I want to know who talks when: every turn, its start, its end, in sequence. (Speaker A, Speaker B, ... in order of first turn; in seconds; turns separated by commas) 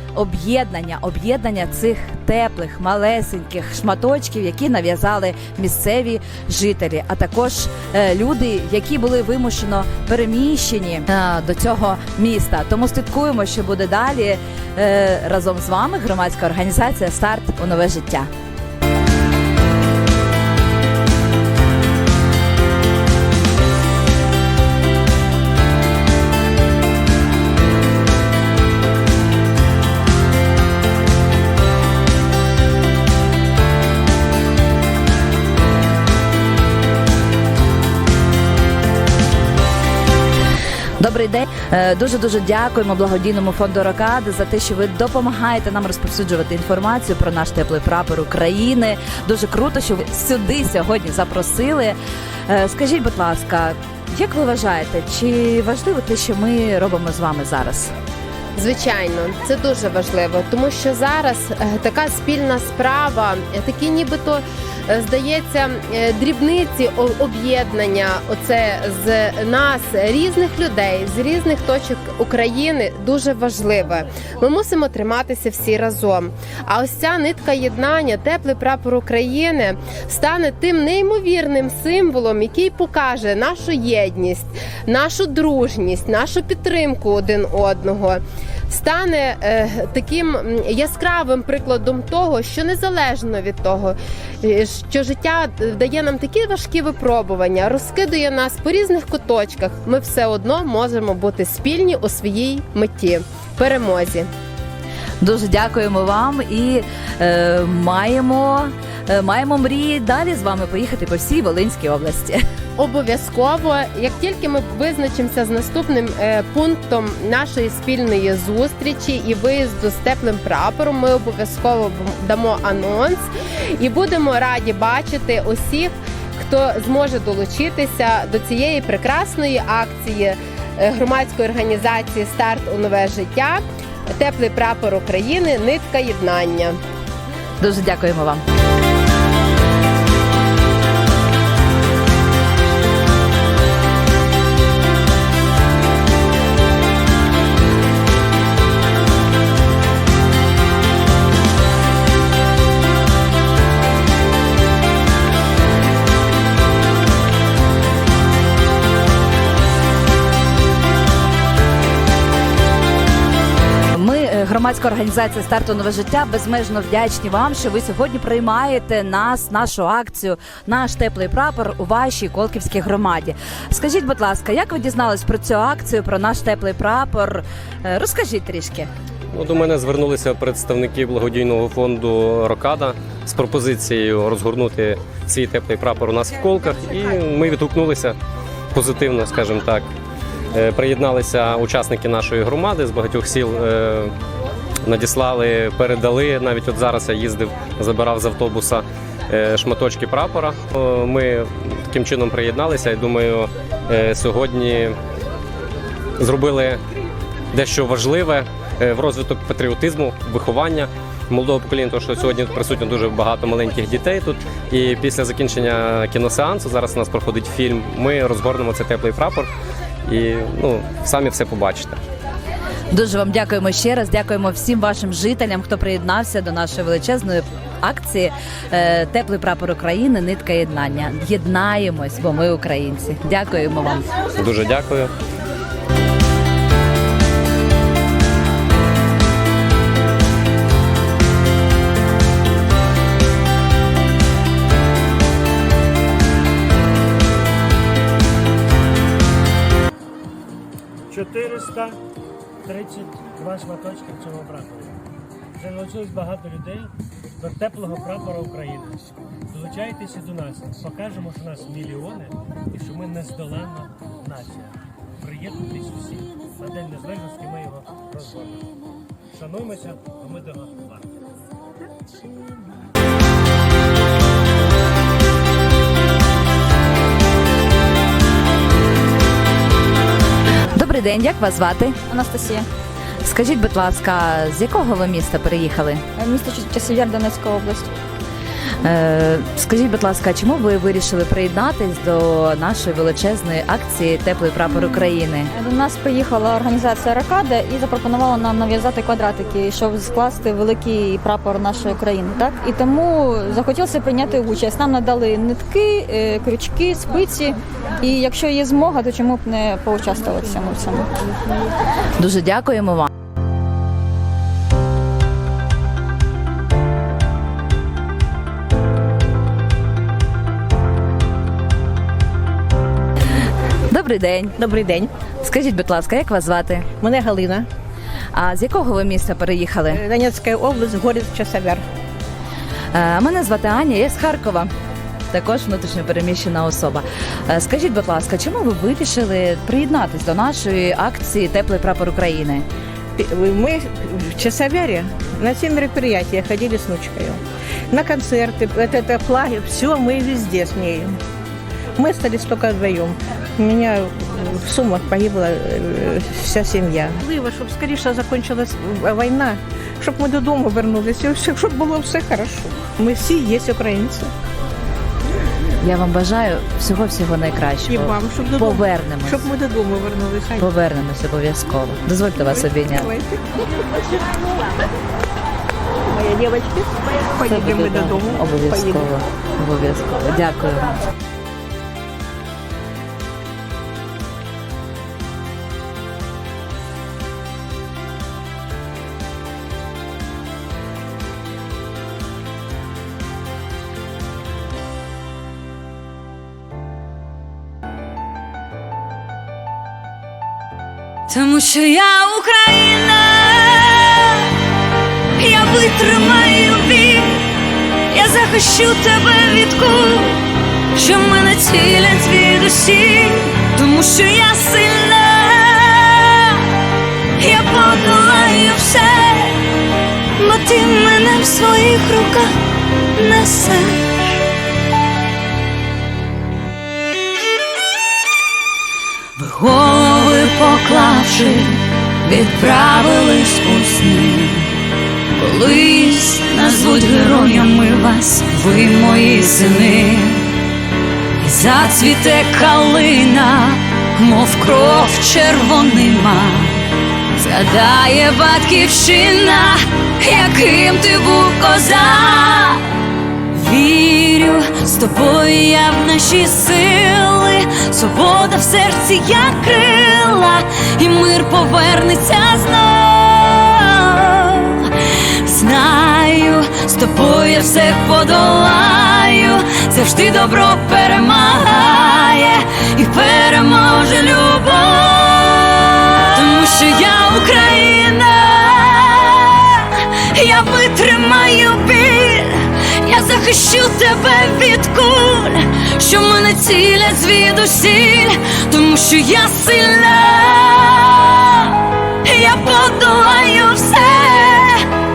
Speaker A: 0.1-18.3, Speaker A: 41.0-52.0, Speaker A: 52.5-57.9, Speaker B: 58.6-104.3, Speaker A: 105.2-112.4, Speaker B: 112.8-123.2, Speaker B: 123.8-136.8, Speaker A: 137.6-138.4, Speaker A: 163.9-178.9, Speaker C: 179.3-188.1, Speaker C: 188.7-189.9, Speaker C: 190.5-194.1, Speaker C: 194.8-204.9, Speaker C: 206.2-206.8, Speaker C: 207.5-219.5, Speaker C: 220.1-222.0, Speaker A: 222.9-234.1, Speaker C: 234.4-235.1, Speaker D: 251.1-252.0, Speaker D: 252.6-254.9, Speaker D: 255.6-268.7, Speaker D: 269.3-271.2, Speaker A: 280.7-281.9, Speaker E: 282.1-282.7, Speaker A: 283.2-286.0, Speaker E: 286.2-287.9, Speaker A: 288.8-295.5, Speaker E: 295.5-311.1, Speaker A: 312.2-313.1, Speaker A: 323.9-324.6, Speaker F: 324.6-325.1, Speaker A: 325.4-326.9, Speaker F: 327.0-327.7, Speaker A: 328.3-330.0, Speaker F: 329.9-331.8, Speaker A: 332.9-334.7, Speaker A: 335.3-342.6, Speaker F: 343.1-351.2, Speaker F: 352.0-364.3, Speaker A: 365.8-369.5, Speaker F: 367.9-370.7, Speaker A: 370.6-373.1, Speaker F: 372.4-373.4, Speaker F: 376.2-379.0, Speaker A: 377.4-380.9, Speaker G: 401.3-404.5, Speaker G: 405.4-407.6, Speaker G: 408.1-410.4, Speaker G: 410.9-416.7, Speaker G: 417.4-419.6, Speaker G: 420.4-422.6, Speaker G: 423.1-424.4, Speaker G: 429.4-434.8, Speaker G: 435.4-440.5, Speaker G: 441.4-446.8, Speaker G: 447.4-452.8, Speaker G: 453.5-494.8